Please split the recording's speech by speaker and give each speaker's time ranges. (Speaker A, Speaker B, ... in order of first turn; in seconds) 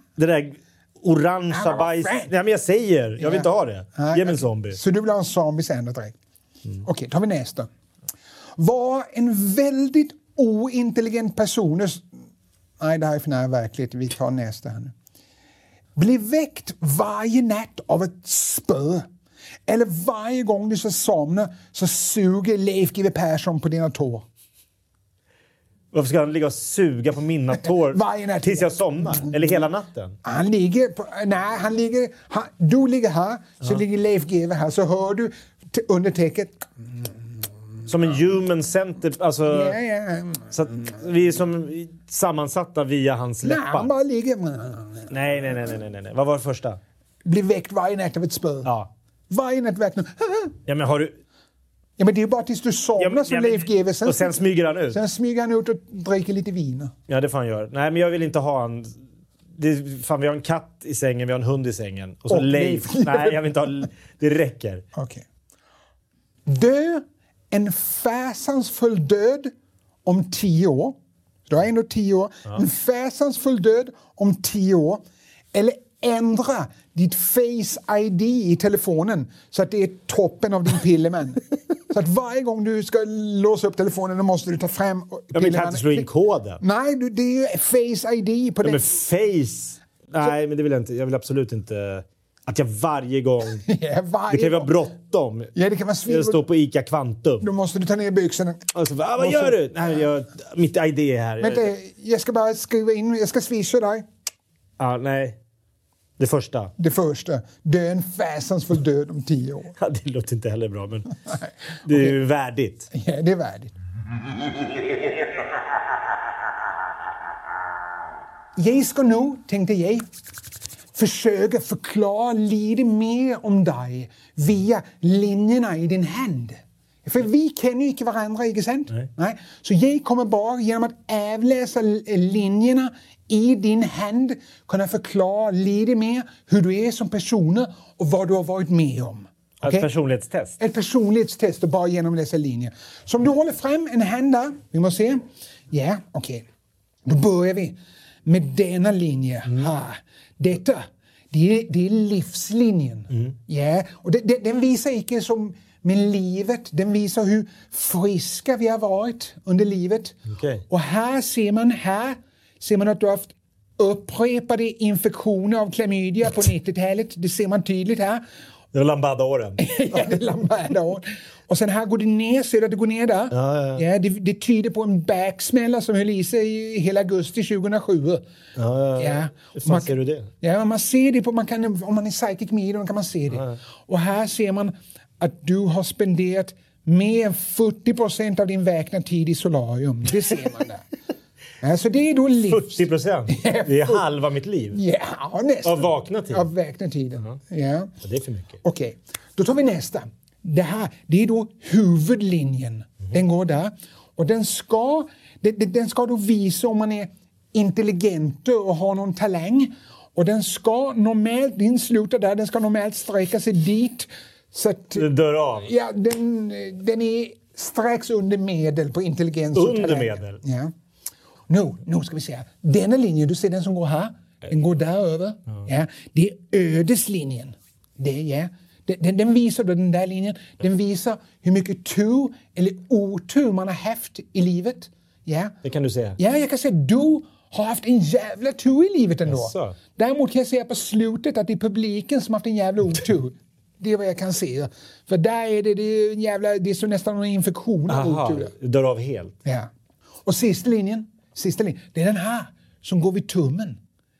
Speaker A: 0.2-4.8, 25.9-30.2, 37.9-39.8, 40.5-43.9, 45.1-46.8, 48.6-48.9, 50.7-51.2, 53.0-55.0, 57.1-58.9, 59.5-64.8, 85.3-86.6, 88.6-93.6, 94.3-95.5, 96.1-97.5, 98.7-101.7, 104.8-105.4, 106.2-106.7, 109.8-111.1, 111.8-112.9, 139.6-140.6, 160.3-160.6, 168.7-170.2, 173.3-173.8, 178.6-180.3, 192.5-194.8, 195.6-196.5, 198.0-198.6, 214.9-215.7, 219.5-220.4, 235.6-236.2, 239.3-239.8, 247.9-249.3
Speaker B: 1.5-2.3, 3.2-6.2, 6.8-7.7, 8.6-12.1, 12.8-14.9, 16.0-19.1, 19.7-24.3, 27.8-29.4, 30.2-36.9, 39.5-40.6, 43.4-45.1, 47.2-48.7, 49.3-50.5, 52.0-56.9, 62.3-63.5, 65.0-65.2, 66.5-69.5, 70.1-86.1, 86.6-88.9, 93.7-94.7, 95.5-96.4, 97.4-99.6, 101.4-104.0, 106.8-109.8, 111.3-112.2, 112.9-113.7, 118.6-120.1, 120.9-139.9, 140.6-146.4, 147.1-160.2, 160.7-168.2, 169.6-178.2, 179.0-190.9, 191.6-194.1, 194.7-197.9, 198.6-215.1, 215.6-220.7, 221.5-235.6, 236.2-248.5, 250.2-253.8